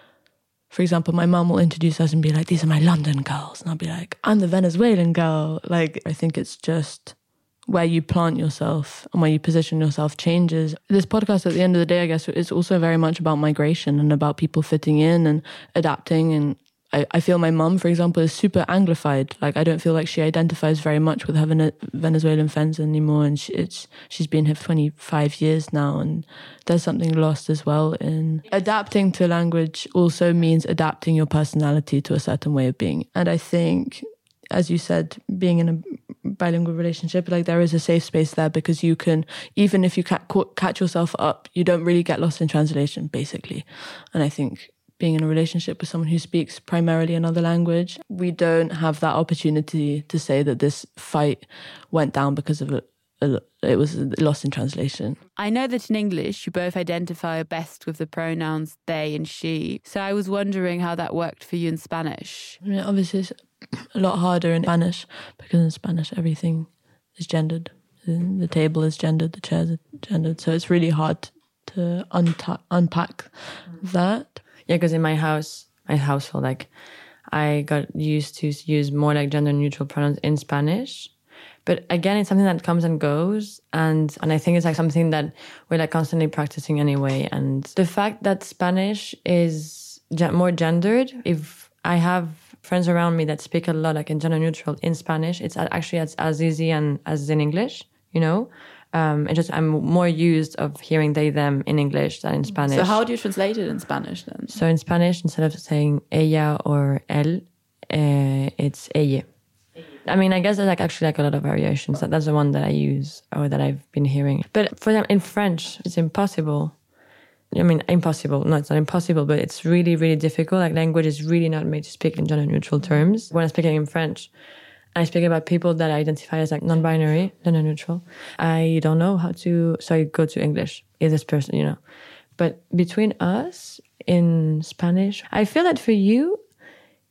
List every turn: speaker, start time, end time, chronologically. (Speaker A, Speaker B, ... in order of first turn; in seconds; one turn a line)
Speaker A: 0.7-55.2
Speaker B: 55.4-62.6
Speaker A: 62.6-74.4
Speaker C: 74.6-103.0
Speaker B: 102.7-104.5
Speaker C: 104.5-116.8
Speaker C: 117.5-124.4
Speaker C: 124.9-136.4